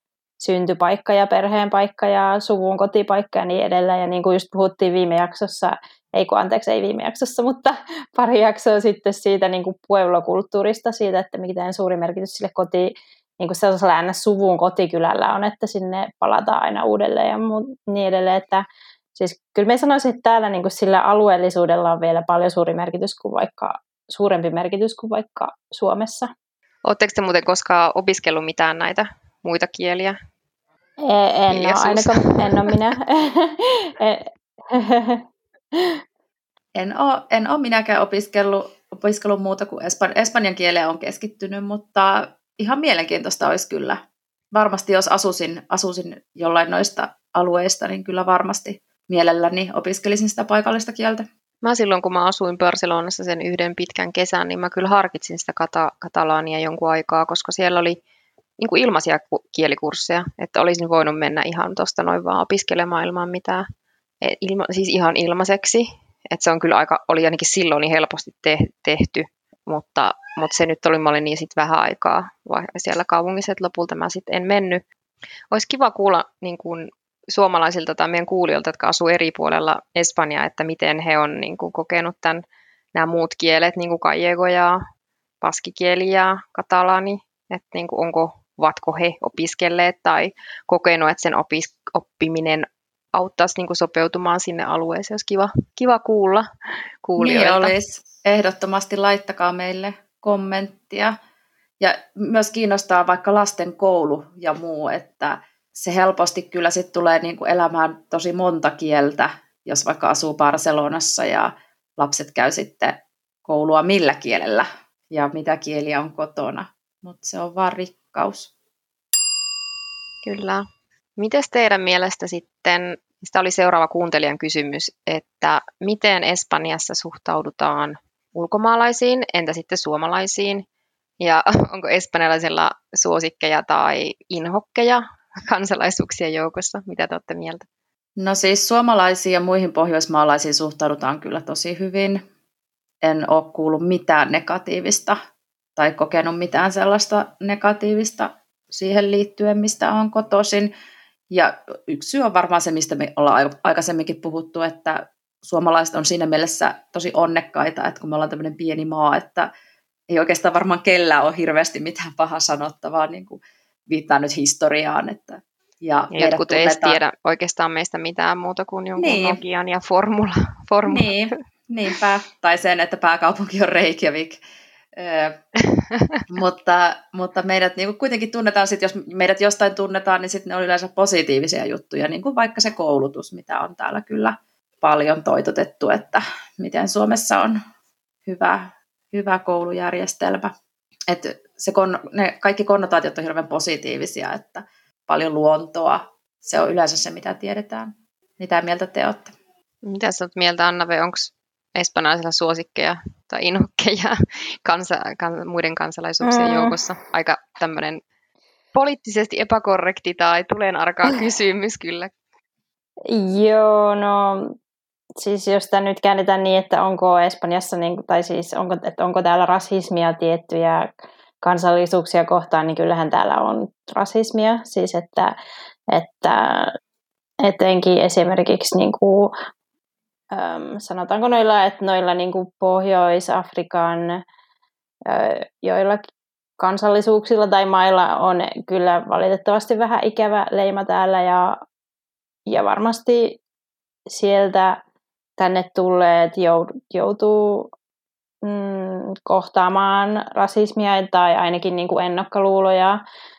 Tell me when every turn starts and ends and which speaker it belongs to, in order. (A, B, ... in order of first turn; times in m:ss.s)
0:00.4-0:18.6 A
0:19.2-0:26.3 A
0:26.8-0:30.2 B
0:31.0-0:35.2 A
0:31.5-0:32.8 B
0:35.7-0:36.0 A
0:36.8-0:51.2 C
0:51.6-0:58.0 B
0:58.6-1:03.6 B
1:04.2-1:14.8 B
1:15.5-1:22.4 B
1:22.9-1:24.8 B
1:25.4-1:36.4 B
1:37.0-1:37.7 B
1:37.2-1:41.2 C
1:41.8-1:58.5 C
2:00.2-2:00.6 B
2:01.2-2:10.6 B
2:11.2-2:17.6 B
2:18.2-2:22.2 C
2:23.0-2:25.2 C
2:25.8-2:30.7 C
2:31.3-2:39.5 C
2:40.1-2:47.0 C
2:46.1-2:51.1 B
2:49.0-2:49.4 C
2:50.9-2:54.4 C
2:54.9-2:55.4 C
2:55.9-2:56.2 B
2:56.3-3:07.6 C
3:08.2-3:10.5 C
3:11.1-3:19.3 C
3:19.8-3:28.0 B
3:26.2-3:26.8 A
3:28.7-3:32.1 B
3:33.1-3:34.5 A
3:35.2-3:45.3 A
3:45.9-3:46.7 A
3:47.4-3:49.3 A
3:50.3-3:54.2 A
3:55.1-3:56.0 A
3:56.6-4:01.6 A
4:02.5-4:03.4 A
4:04.1-4:04.8 A
4:05.4-4:07.7 A
4:08.4-4:13.0 A